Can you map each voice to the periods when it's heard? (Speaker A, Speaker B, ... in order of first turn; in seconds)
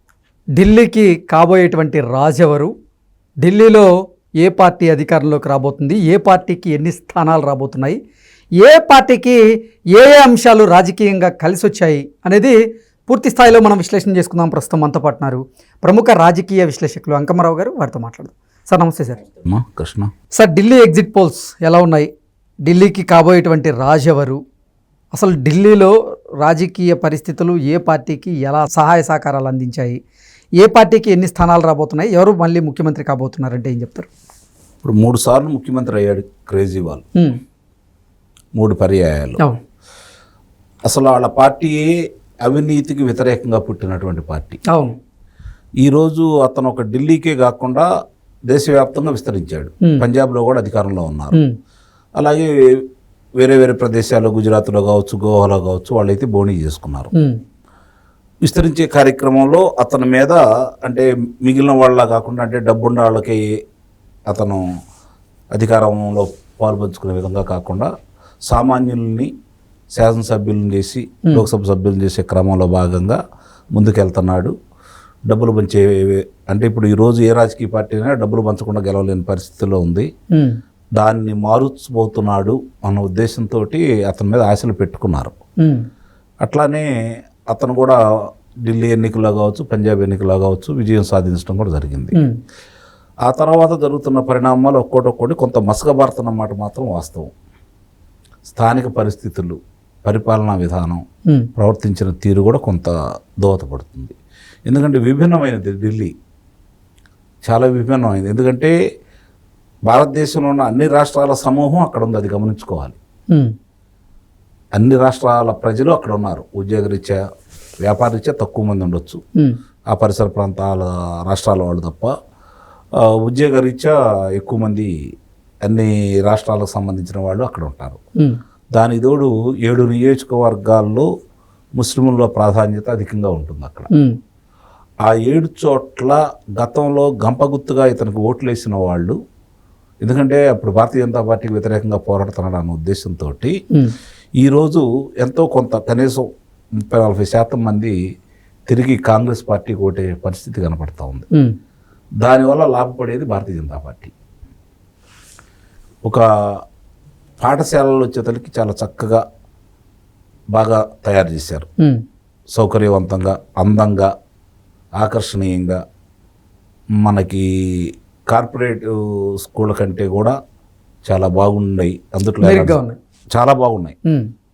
Speaker A: 0.6-2.7, 3.4-3.9, 4.4-8.0, 8.6-9.4, 9.9-12.6, 13.1-19.2, 20.3-22.1, 22.6-24.4, 25.1-30.0, 30.6-34.1, 44.7-45.0, 80.3-80.6, 172.4-173.0
Speaker B: 19.4-20.1, 34.8-37.0, 38.5-39.4, 40.9-41.9, 42.5-44.6, 45.8-47.9, 48.5-51.4, 52.2-52.8, 53.4-57.1, 58.5-63.4, 64.3-64.6, 65.5-67.9, 68.5-69.3, 69.9-73.2, 73.7-74.5, 75.3-80.1, 81.0-85.3, 86.4-86.9, 87.5-88.0, 88.7-92.1, 93.2-97.3, 98.5-101.0, 101.5-104.1, 104.7-106.1, 107.4-108.8, 109.9-113.0, 114.8-117.2, 117.8-119.2, 119.9-122.1, 123.0-124.9, 125.6-128.0, 128.7-131.1, 131.8-133.9, 135.1-139.2, 140.0-143.6, 144.4-146.3, 146.8-148.0, 148.7-151.3, 152.2-154.1, 157.4-159.2, 160.6-161.7, 162.5-164.1, 165.0-165.8, 167.0-170.4, 171.1-172.8, 173.3-174.0